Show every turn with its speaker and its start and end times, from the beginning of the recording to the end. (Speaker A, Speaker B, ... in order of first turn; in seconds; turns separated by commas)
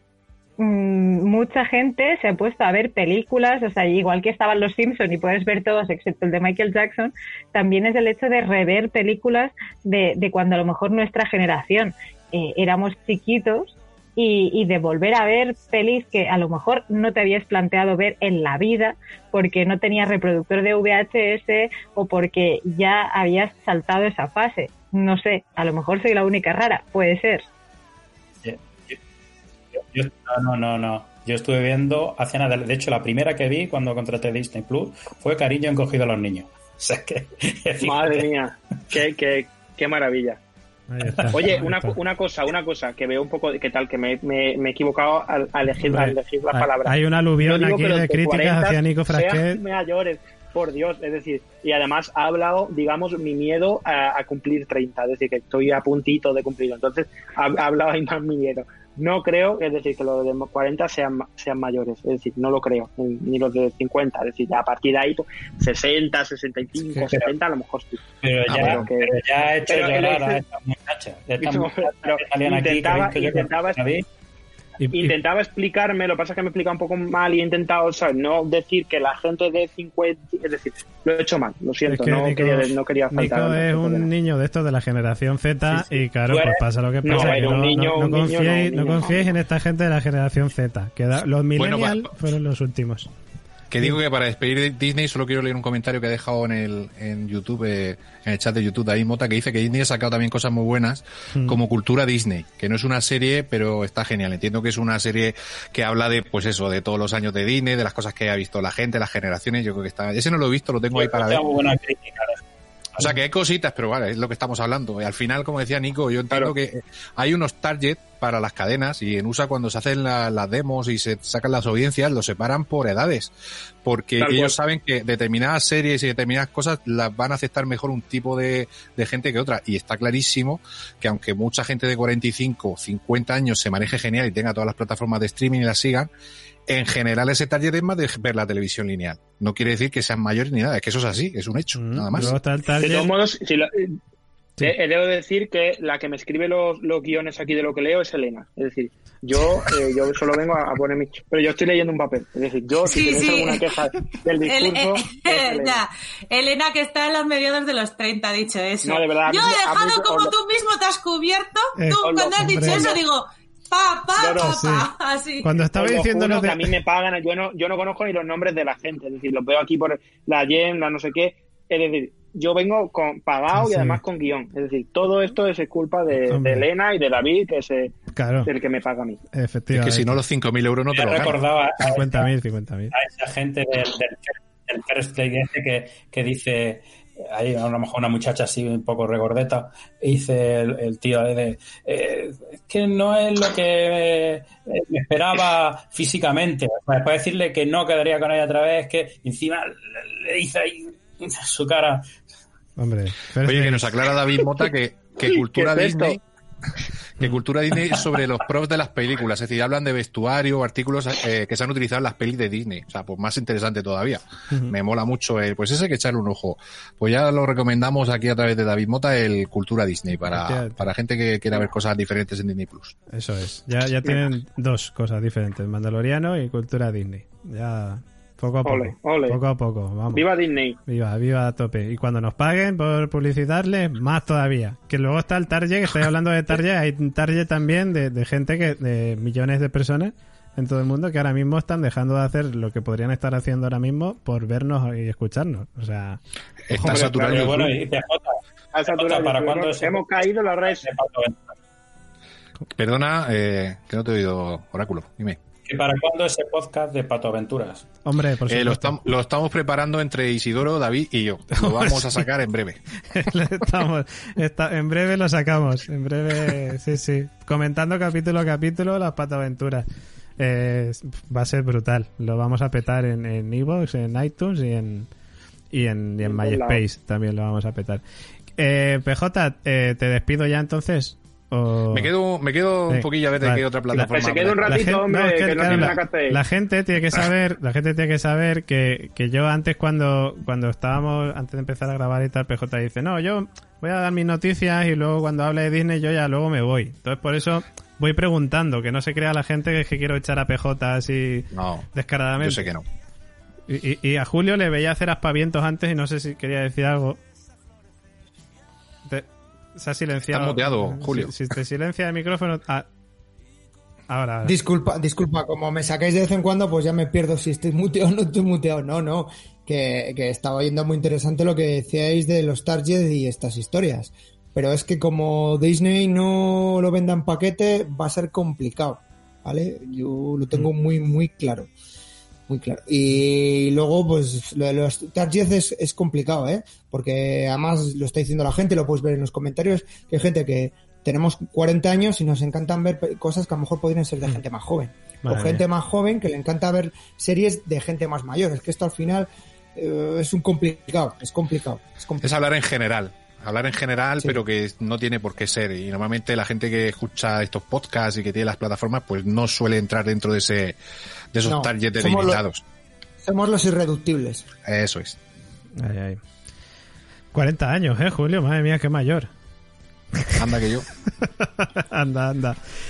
Speaker A: 0.6-27.4, Speaker B: 28.4-29.0, Speaker B: 29.8-38.2, Speaker C: 37.8-40.4, Speaker D: 40.9-42.0, Speaker C: 41.3-70.4, Speaker D: 45.8-49.6, Speaker B: 68.2-74.0, Speaker E: 68.5-68.8, Speaker C: 71.4-73.8, Speaker D: 74.8-75.1, Speaker C: 74.9-84.1, Speaker D: 81.8-93.1, Speaker C: 87.0-89.3, Speaker E: 91.6-92.1, Speaker E: 93.7-111.4, Speaker B: 110.9-112.4, Speaker E: 113.0-123.3, Speaker E: 123.8-136.1, Speaker C: 124.2-124.5, Speaker E: 136.7-142.3, Speaker D: 141.7-143.1, Speaker C: 142.8-144.0, Speaker C: 144.6-155.8, Speaker F: 152.8-153.7, Speaker F: 154.4-165.5, Speaker C: 158.8-160.3, Speaker D: 161.8-162.9, Speaker C: 162.0-163.0, Speaker C: 164.2-164.6, Speaker D: 164.4-164.9, Speaker D: 165.4-166.6, Speaker C: 165.7-177.9, Speaker D: 173.5-174.0, Speaker D: 176.3-176.6, Speaker D: 178.1-178.5, Speaker C: 178.4-179.2, Speaker D: 179.3-180.2, Speaker E: 179.7-181.4, Speaker B: 180.9-182.3, Speaker D: 181.8-182.9, Speaker B: 182.9-202.1, Speaker D: 202.8-203.9, Speaker E: 203.4-206.2, Speaker C: 205.3-206.2, Speaker E: 207.2-222.9, Speaker D: 220.3-220.9, Speaker D: 223.1-230.2, Speaker C: 228.6-229.4, Speaker C: 230.1-230.8, Speaker D: 230.8-246.2, Speaker E: 246.7-247.7, Speaker D: 246.7-247.3, Speaker C: 247.2-247.5, Speaker B: 247.3-248.3, Speaker C: 248.7-250.8, Speaker B: 248.9-250.0, Speaker B: 250.7-251.5, Speaker E: 252.7-255.4, Speaker B: 255.6-257.9, Speaker D: 258.0-259.0, Speaker E: 258.5-262.8, Speaker D: 261.6-262.2, Speaker D: 263.1-269.8, Speaker D: 270.4-275.1, Speaker D: 275.7-278.0, Speaker C: 276.2-276.8, Speaker D: 278.6-282.1, Speaker E: 281.9-284.9, Speaker D: 282.9-284.1, Speaker C: 284.1-286.4, Speaker D: 284.6-302.7, Speaker E: 285.6-286.0, Speaker E: 301.5-302.8, Speaker D: 303.7-307.2, Speaker D: 309.1-312.9, Speaker E: 310.3-311.3, Speaker D: 314.1-314.5, Speaker G: 314.4-331.7, Speaker G: 332.5-352.3, Speaker D: 345.2-345.6, Speaker E: 352.2-360.8, Speaker E: 361.3-362.6, Speaker G: 361.4-362.4, Speaker G: 363.2-364.5, Speaker E: 364.6-365.2, Speaker D: 365.8-366.2, Speaker D: 367.3-369.3, Speaker E: 370.4-370.9, Speaker D: 371.2-372.6